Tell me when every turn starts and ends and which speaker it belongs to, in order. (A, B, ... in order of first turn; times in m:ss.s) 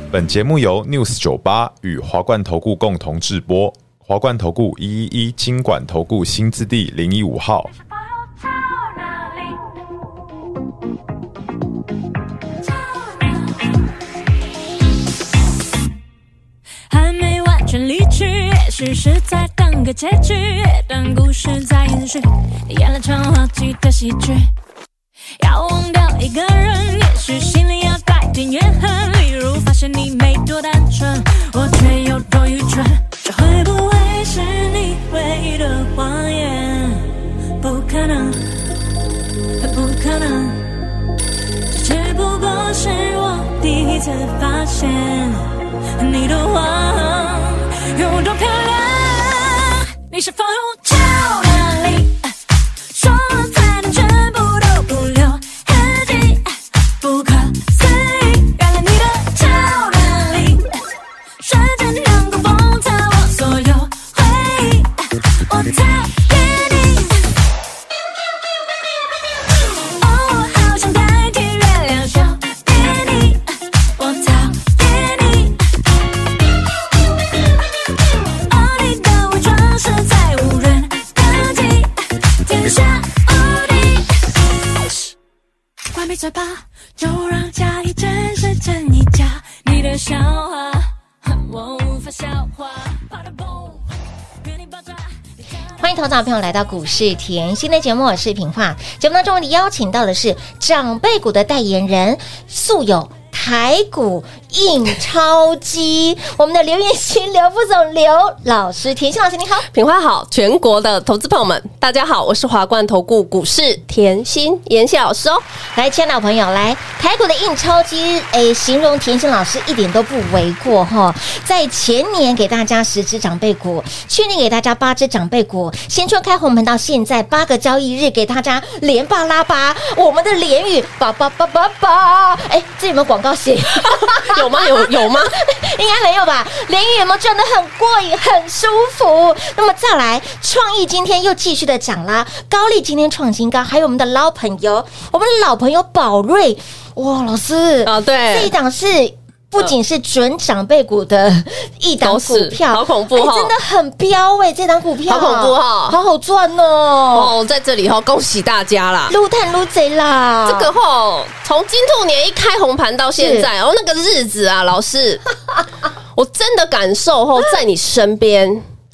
0:00.1-0:07.7 A
0:08.4-0:09.6 B
0:16.9-0:24.5 B
0:25.4-0:38.5 B
0:39.6-0:40.8 B
0:41.7-0:52.3 B
0:52.9-1:00.8 B
1:01.4-1:07.2 B
1:09.7-1:15.7 B
1:18.3-1:24.2 B
1:25.9-1:33.8 B
1:34.4-1:35.1 B
1:35.8-1:49.6 C
1:49.7-1:55.4 D
1:55.7-2:37.3 C
2:13.8-2:15.4 D
2:27.8-2:28.5 D
2:32.0-2:33.5 D
2:35.1-2:36.0 D
2:37.1-2:39.1 D
2:39.1-2:40.7 C
2:40.4-2:45.2 D
2:43.2-2:43.5 C
2:46.2-2:48.6 D